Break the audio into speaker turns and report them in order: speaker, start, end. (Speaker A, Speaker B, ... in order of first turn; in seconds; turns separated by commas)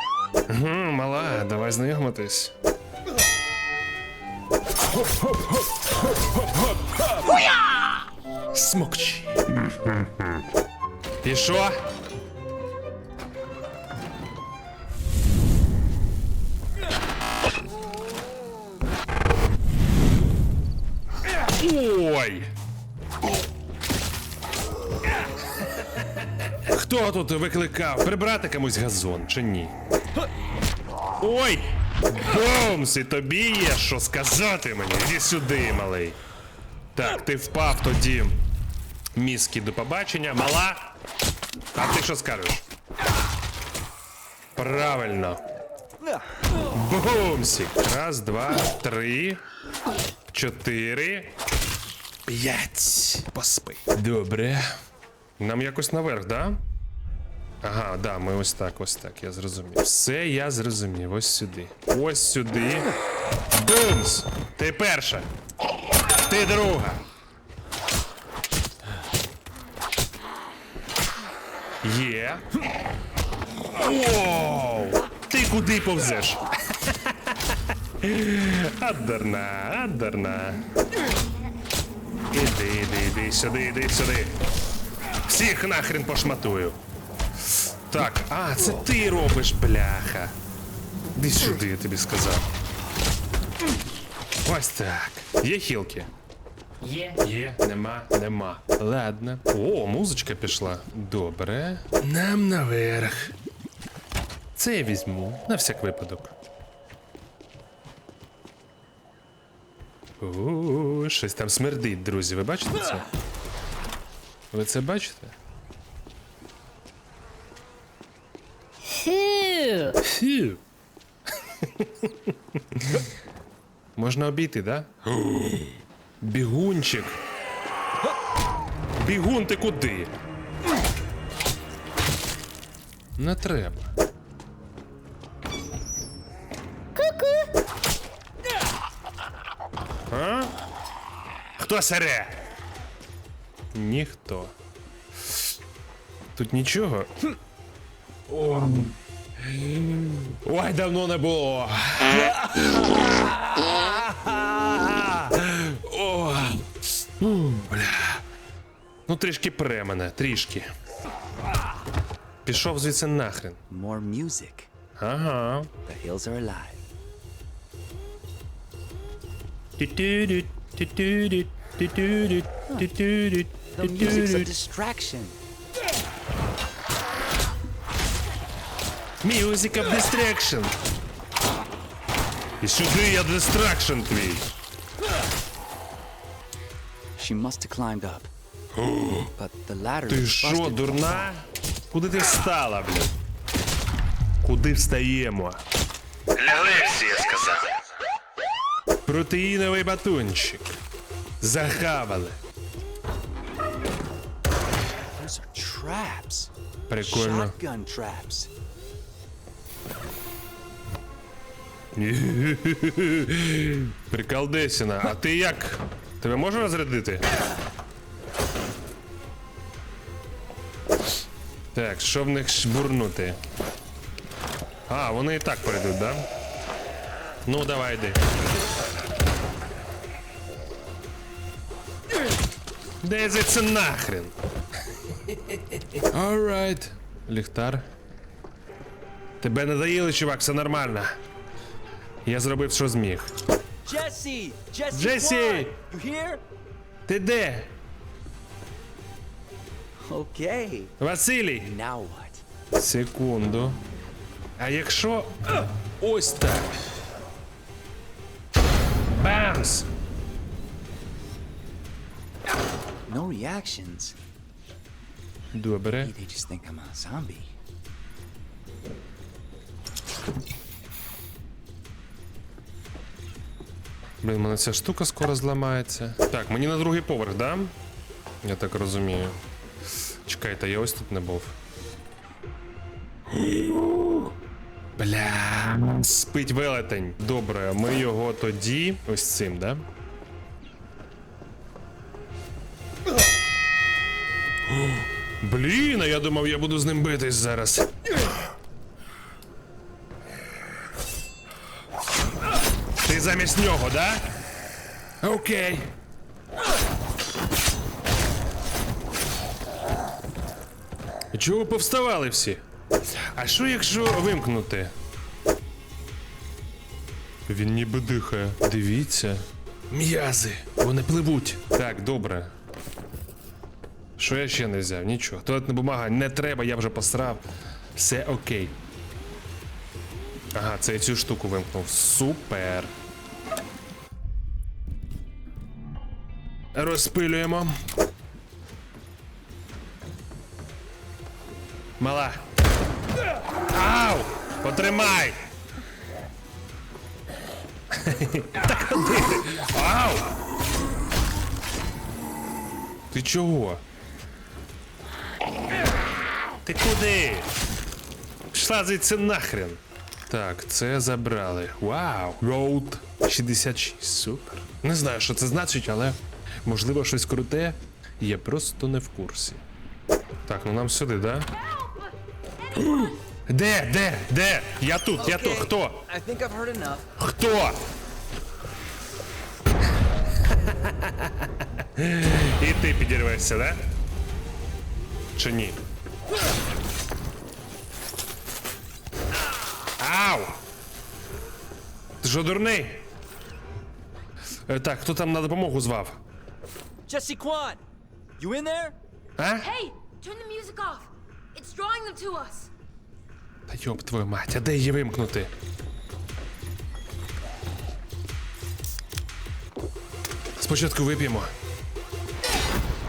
Speaker A: 0.5-2.5, Speaker A: 5.1-5.6, Speaker A: 6.3-7.5, Speaker A: 8.5-10.1, Speaker A: 11.2-11.8, Speaker A: 21.5-22.5, Speaker A: 26.6-29.7, Speaker A: 31.2-36.2, Speaker A: 37.0-38.4, Speaker A: 39.1-41.0, Speaker A: 41.8-42.6, Speaker A: 44.6-45.4, Speaker A: 46.7-49.4, Speaker A: 50.3-51.3, Speaker A: 52.3-54.7, Speaker A: 55.4-56.6, Speaker A: 57.6-62.9, Speaker A: 63.5-65.3, Speaker A: 66.2-67.0, Speaker A: 71.8-72.5, Speaker A: 73.8-80.6, Speaker A: 82.3-84.3, Speaker A: 85.2-86.8, Speaker A: 87.9-90.3, Speaker A: 91.2-92.5, Speaker A: 94.5-96.1, Speaker A: 96.8-103.3, Speaker A: 104.5-106.3, Speaker A: 110.2-113.0, Speaker A: 114.5-115.3, Speaker B: 119.1-119.9, Speaker A: 120.0-120.6, Speaker A: 121.8-122.1, Speaker A: 122.8-123.1, Speaker A: 124.0-125.7, Speaker A: 126.2-127.2, Speaker A: 129.0-130.1, Speaker A: 133.2-133.9, Speaker B: 137.0-137.4, Speaker A: 140.1-140.6, Speaker A: 141.6-142.4, Speaker A: 143.7-144.5, Speaker A: 146.3-147.2, Speaker A: 148.3-148.9, Speaker A: 149.4-158.2, Speaker A: 159.1-160.7, Speaker A: 162.4-163.6, Speaker C: 163.7-164.7, Speaker A: 165.0-165.7, Speaker C: 165.9-166.8, Speaker A: 169.8-174.5, Speaker C: 173.7-175.4, Speaker A: 179.2-180.8, Speaker A: 182.6-184.5, Speaker C: 187.2-188.3, Speaker A: 188.8-189.3, Speaker C: 189.4-191.3, Speaker A: 190.1-193.1, Speaker A: 194.4-195.6, Speaker A: 196.4-197.7, Speaker A: 199.1-200.8, Speaker A: 201.4-202.4, Speaker C: 205.2-206.5, Speaker A: 206.9-207.6, Speaker C: 207.0-208.5, Speaker A: 211.9-217.3, Speaker A: 221.7-223.4, Speaker A: 224.9-226.2, Speaker A: 227.5-228.2, Speaker A: 233.0-234.3, Speaker A: 235.3-237.9, Speaker A: 239.4-241.1, Speaker A: 242.2-243.3, Speaker C: 243.8-246.4, Speaker A: 244.9-245.8, Speaker A: 247.1-247.7, Speaker C: 250.0-250.9, Speaker A: 251.0-251.7, Speaker C: 251.6-252.4, Speaker A: 252.8-253.8, Speaker A: 254.6-256.8, Speaker A: 259.1-259.9, Speaker C: 263.1-264.2, Speaker A: 265.5-266.1, Speaker C: 266.0-267.5, Speaker A: 274.2-277.7, Speaker A: 278.4-279.4, Speaker A: 280.2-281.6, Speaker A: 283.5-284.2, Speaker A: 285.0-289.9, Speaker A: 295.4-297.9, Speaker A: 303.0-304.3, Speaker A: 305.2-305.9, Speaker A: 311.3-312.6, Speaker A: 313.3-314.9, Speaker A: 317.5-322.5, Speaker A: 324.2-327.4, Speaker A: 328.0-328.8, Speaker A: 330.5-332.9, Speaker A: 336.7-337.8, Speaker A: 342.0-342.4, Speaker A: 343.7-345.4, Speaker A: 347.9-350.3, Speaker A: 353.1-353.8, Speaker A: 356.6-357.5, Speaker A: 358.5-369.6, Speaker A: 370.4-371.5, Speaker A: 372.8-376.1, Speaker C: 375.2-377.1, Speaker A: 377.2-377.8, Speaker A: 380.7-383.9, Speaker A: 385.4-385.8, Speaker A: 390.0-390.6, Speaker A: 392.2-393.1, Speaker A: 394.7-396.2, Speaker C: 397.1-397.8, Speaker C: 398.4-399.0, Speaker A: 399.4-399.7, Speaker B: 399.6-402.7, Speaker A: 403.7-405.5, Speaker A: 410.6-411.5